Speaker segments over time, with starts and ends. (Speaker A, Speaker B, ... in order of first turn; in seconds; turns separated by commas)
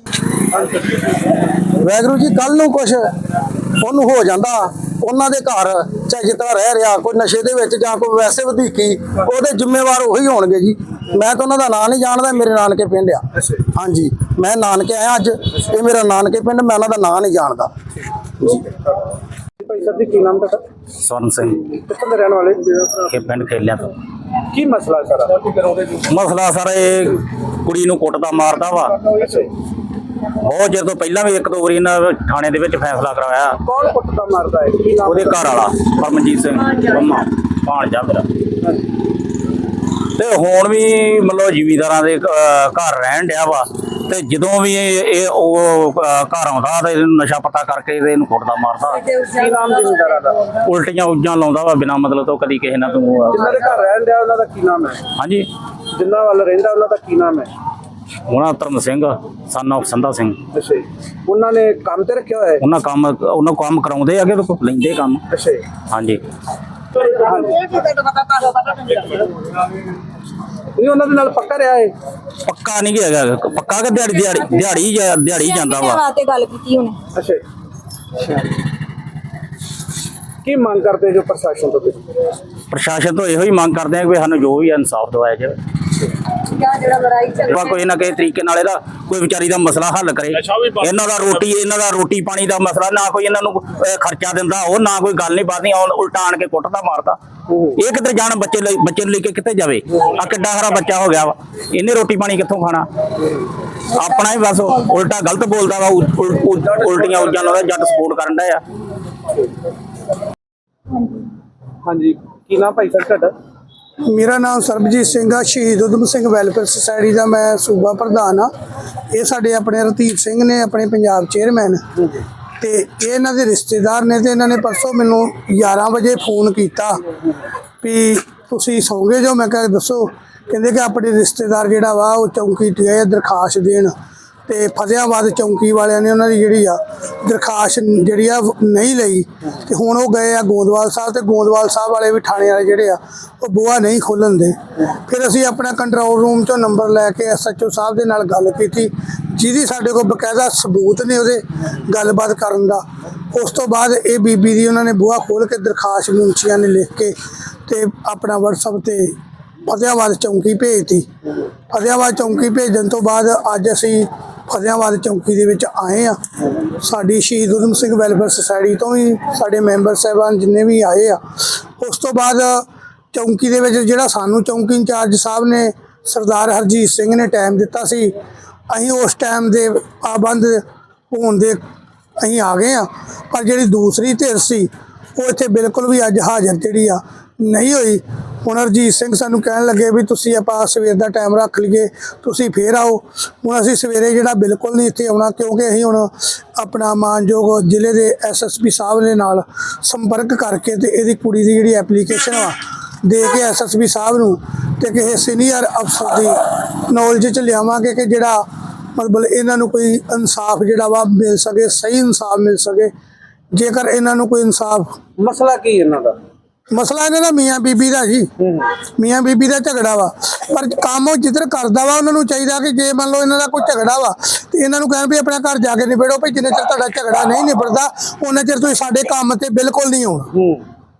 Speaker A: 0.5-1.0, Speaker B: 1.6-3.1, Speaker B: 3.8-17.7, Speaker A: 18.4-18.8, Speaker A: 19.6-20.7, Speaker C: 21.0-21.7, Speaker A: 21.8-22.6, Speaker C: 22.8-23.9, Speaker A: 24.5-25.3, Speaker C: 25.6-29.1, Speaker A: 29.1-29.5, Speaker C: 30.4-33.6, Speaker A: 33.6-35.4, Speaker C: 34.8-38.3, Speaker C: 40.1-49.1, Speaker A: 49.1-50.4, Speaker C: 50.4-53.7, Speaker A: 53.4-55.0, Speaker C: 55.2-55.5, Speaker A: 55.9-57.5, Speaker C: 58.3-60.4, Speaker A: 60.5-62.6, Speaker C: 62.6-65.2, Speaker A: 65.3-65.6, Speaker C: 65.8-66.2, Speaker A: 67.2-67.6, Speaker D: 67.6-69.0, Speaker A: 70.8-71.9, Speaker C: 72.4-76.0, Speaker D: 75.3-77.0, Speaker A: 77.1-77.4, Speaker A: 80.4-82.1, Speaker C: 82.7-85.6, Speaker D: 86.7-87.1, Speaker C: 87.2-97.2, Speaker C: 97.7-102.8, Speaker C: 103.9-108.6, Speaker A: 111.8-113.3, Speaker E: 114.0-118.5, Speaker E: 119.1-121.8, Speaker E: 122.6-127.0, Speaker E: 127.8-133.9, Speaker E: 134.5-157.1, Speaker E: 157.7-161.1, Speaker E: 161.7-178.1, Speaker E: 178.7-181.6, Speaker E: 182.2-208.4, Speaker E: 208.9-212.9, Speaker E: 213.5-215.0, Speaker A: 215.2-216.2, Speaker E: 216.7-230.4, Speaker A: 218.4-218.7, Speaker A: 230.3-230.6